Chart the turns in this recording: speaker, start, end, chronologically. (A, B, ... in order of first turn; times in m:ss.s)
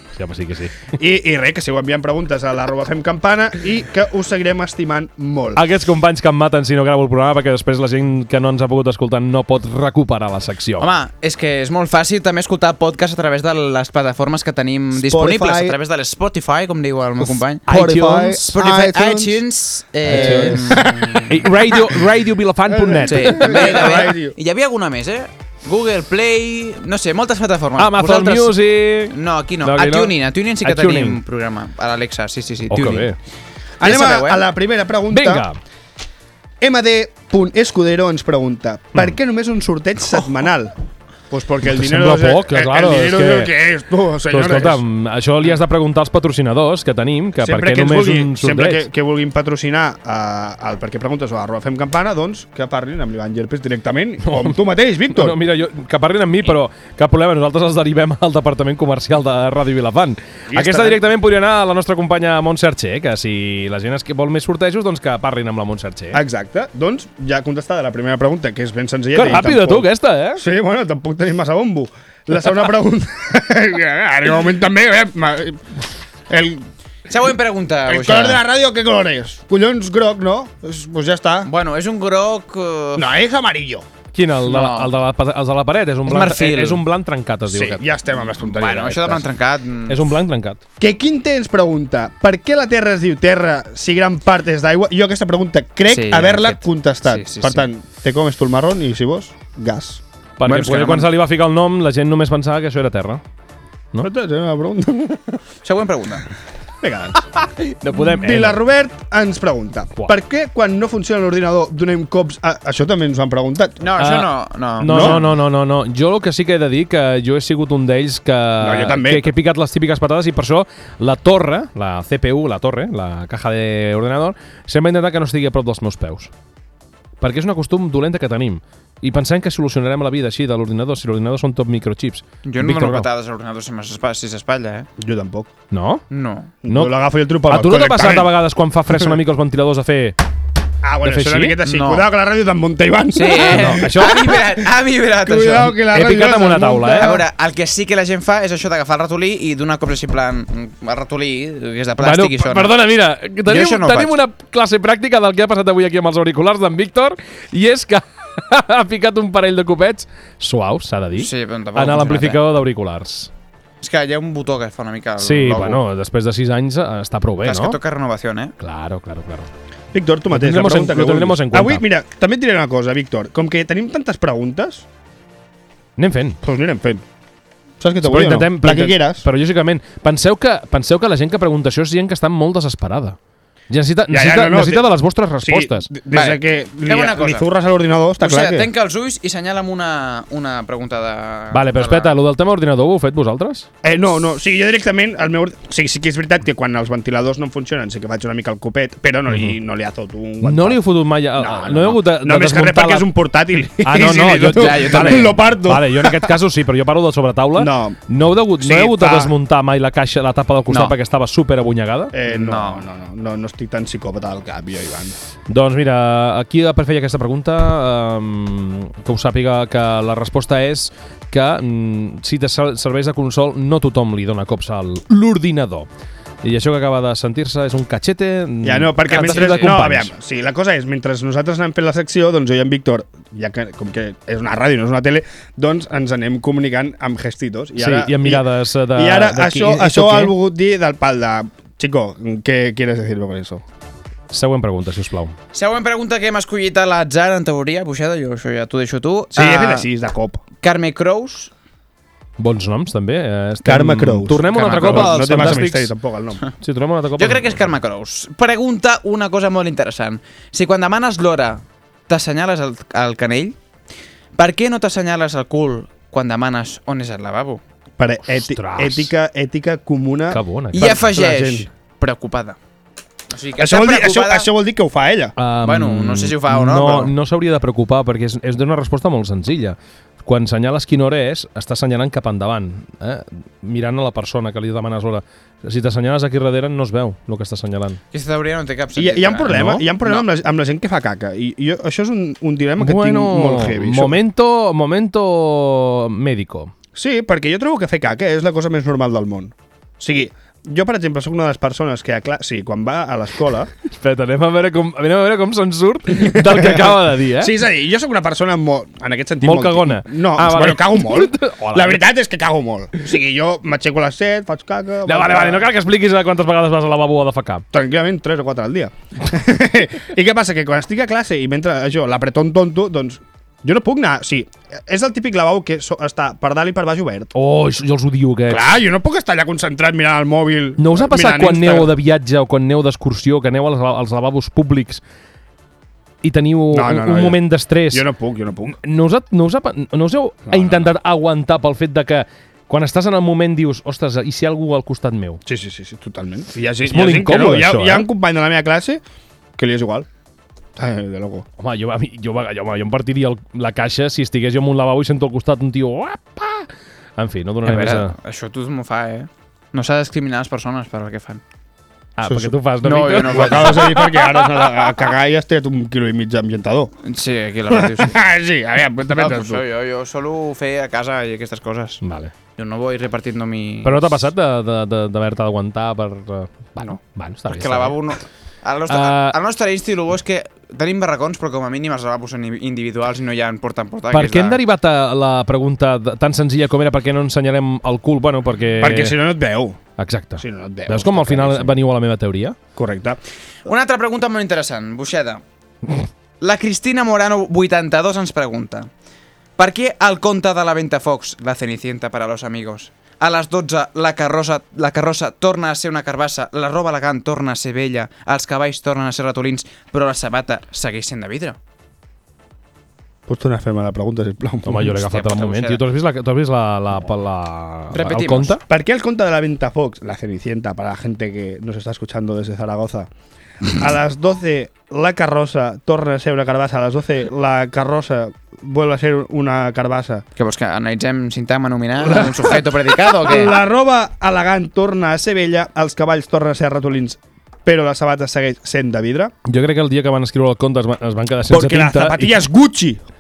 0:00.1-0:00.9 A
0:00.9-0:05.6 B
0:05.6-0:10.9 A
0:10.8-0:17.7 C
0:15.0-0:15.8 B
0:17.2-0:19.4 B
0:17.7-0:18.5 A
0:18.4-0:21.4 C
0:20.0-0:21.4 B
0:20.1-0:24.1 A
0:22.7-0:24.4 B
0:23.1-0:33.1 C
0:27.8-0:31.2 A
0:32.7-0:33.2 A
0:33.8-0:35.5 B
0:33.8-0:34.4 C
0:35.1-0:35.6 A
0:36.6-0:40.8 B
0:41.3-0:44.8 B
0:41.6-0:43.5 A
0:44.3-0:48.8 A
0:47.4-0:55.4 B
0:54.2-0:54.6 A
0:55.1-1:06.2 A
1:00.5-1:01.0 B
1:06.1-1:16.7 B
1:09.2-1:10.4 A
1:17.1-1:18.4 C
1:17.9-1:21.5 B
1:21.4-1:23.1 C
1:23.0-1:23.9 B
1:24.1-1:27.9 A
1:24.4-1:24.9 C
1:26.1-1:26.8 C
1:27.5-1:29.3 B
1:28.4-1:30.2 C
1:29.9-1:30.6 A
1:30.8-1:40.0 B
1:35.9-1:37.7 C
1:40.4-1:43.2 A
1:40.5-1:41.1 C
1:44.0-1:45.4 B
1:45.6-1:46.3 C
1:46.8-1:47.2 B
1:47.4-1:48.6 A
1:47.9-1:54.0 B
1:53.8-1:55.3 C
1:54.0-2:06.3 A
1:54.8-1:55.2 B
1:58.6-1:59.3 B
2:07.2-2:13.1 A
2:12.4-2:14.9 C
2:15.0-2:15.5 B
2:15.7-2:16.0 A
2:16.1-2:16.5 C
2:16.6-2:18.4 B
2:16.7-2:20.2 A
2:20.8-2:24.6 B
2:21.0-2:21.6 A
2:21.6-2:22.1 C
2:23.1-2:25.8 C
2:23.5-2:24.3 A
2:25.2-2:27.2 B
2:25.9-2:27.2 A
2:27.0-2:32.8 C
2:32.0-2:43.3 A
2:33.5-2:34.2 C
2:41.1-2:42.4 C
2:43.8-2:45.8 C
2:45.2-2:47.8 A
2:47.4-2:48.6 C
2:48.6-2:49.5 A
2:49.9-2:54.9 B
2:50.3-2:51.8 A
2:56.0-2:56.4 A
2:56.4-2:57.0 B
2:57.8-2:59.2 B
2:58.0-3:03.2 A
3:03.7-3:05.9 A
3:04.1-3:08.7 B
3:06.1-3:07.5 C
3:08.2-3:12.1 C
3:11.5-3:13.7 A
3:13.8-3:20.8 B
3:20.4-3:23.1 A
3:21.4-3:26.4 B
3:23.8-3:32.1 A
3:24.5-3:25.4 C
3:27.6-3:28.0 B
3:28.6-3:29.3 B
3:32.1-3:35.2 B
3:32.3-3:32.8 C
3:35.5-3:45.9 A
3:46.4-3:50.1 A
3:48.6-4:03.6 B
3:49.1-3:49.7 C
3:57.8-4:00.3 A
4:04.3-4:05.4 A
4:05.5-4:09.9 C
4:09.3-4:10.4 B
4:10.6-4:11.5 C
4:12.4-4:15.9 A
4:13.6-4:16.4 B
4:14.4-4:15.6 C
4:16.6-4:17.6 A
4:17.2-4:23.6 C
4:24.4-4:27.6 C
4:28.0-4:31.7 B
4:28.3-4:29.1 A
4:30.3-4:31.1 A
4:30.7-4:32.6 C
4:33.3-4:34.5 C
4:33.6-4:35.4 B
4:35.4-4:48.0 A
4:35.6-4:37.1 C
4:48.1-4:50.3 C
4:49.0-4:54.2 B
4:49.5-4:49.8 A
4:52.8-4:56.7 A
4:57.0-5:03.7 B
5:03.9-5:07.6 A
5:06.2-5:15.7 B
5:09.4-5:12.0 A
5:15.0-5:17.6 A
5:17.7-5:27.3 B
5:27.3-5:28.8 A
5:28.5-5:31.9 B
5:30.8-5:35.0 A
5:36.2-5:38.1 A
5:36.7-5:38.8 B
5:38.7-5:45.4 A
5:40.5-5:40.9 B
5:45.5-5:49.0 B
5:46.8-5:48.1 A
5:49.6-5:50.1 B
5:50.8-5:51.5 B
5:51.6-5:58.2 A
5:57.6-6:01.4 C
6:02.2-6:04.9 A
6:02.2-6:02.6 B
6:02.8-6:03.9 C
6:03.2-6:06.9 B
6:07.0-6:08.2 C
6:07.7-6:09.6 B
6:09.1-6:12.0 C
6:12.0-6:12.3 A
6:12.6-6:14.2 C
6:13.8-6:18.0 A
6:17.5-6:24.6 C
6:18.9-6:19.4 A
6:24.1-6:29.2 A
6:28.8-6:29.8 B
6:30.0-6:32.6 A
6:30.4-6:31.8 B
6:32.8-6:33.2 B
6:33.6-6:35.4 C
6:36.4-6:38.9 C
6:39.6-6:51.6 C
6:53.3-6:55.0 B
6:54.6-6:58.6 A
6:55.0-6:55.8 C
6:57.9-6:58.6 C
6:58.7-7:03.1 B
7:03.6-7:10.2 B
7:10.4-7:13.6 C
7:12.0-7:19.3 B
7:19.4-7:22.3 A
7:21.5-7:23.0 B